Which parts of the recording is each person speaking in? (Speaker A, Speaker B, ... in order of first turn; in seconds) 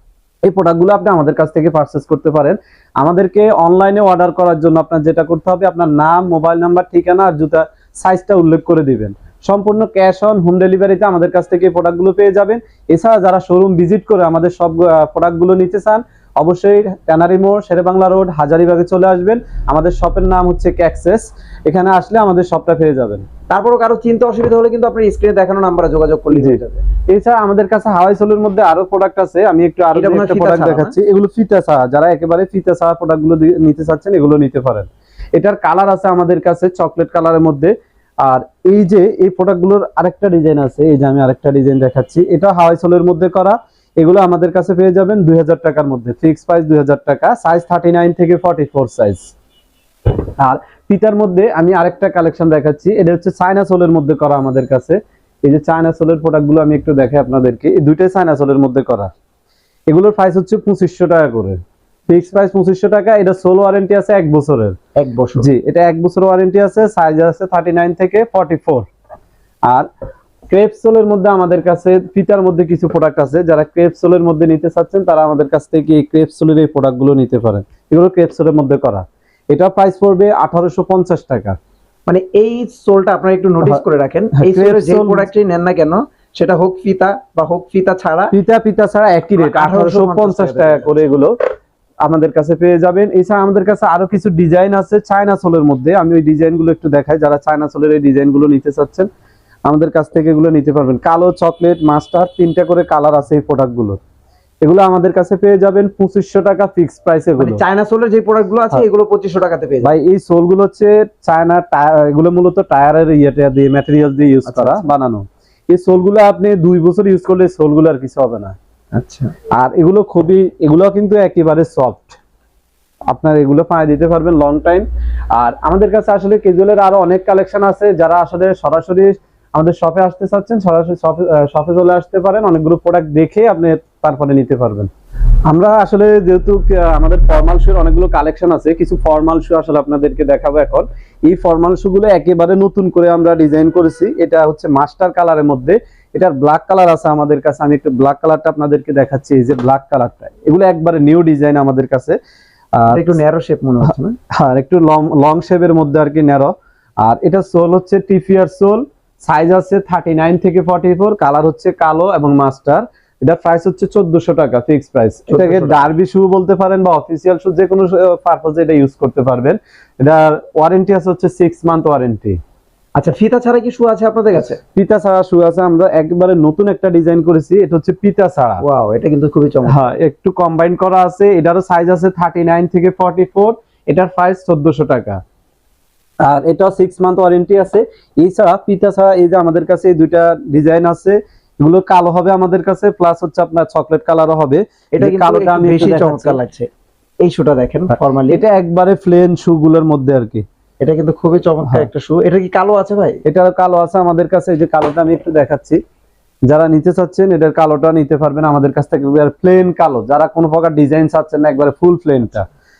Speaker A: 0.4-23.2, 26.3-37.7, 38.2-49.3, 50.4-59.1, 59.9-64.8, 65.4-68.9, 70.5-81.5, 84.3-85.3, 88.3-91.3, 92.0-99.1, 99.7-104.0, 104.6-107.6, 109.8-118.5, 119.5-122.2, 123.1-134.9, 135.5-152.2, 152.8-153.1, 154.3-156.5, 157.0-172.4, 174.8-178.6, 179.7-185.2, 186.2-196.4, 198.3-200.4, 203.2-205.8, 206.5-212.5
Speaker B: 23.5-26.8, 29.9-30.9, 65.0-65.5, 82.1-88.3, 89.4-91.0, 107.4-109.9, 114.5-114.8, 118.9-119.3, 152.9-154.2, 165.3-165.8, 173.0-174.6, 178.6-179.8, 194.9-196.7, 197.2-198.4, 200.8-203.2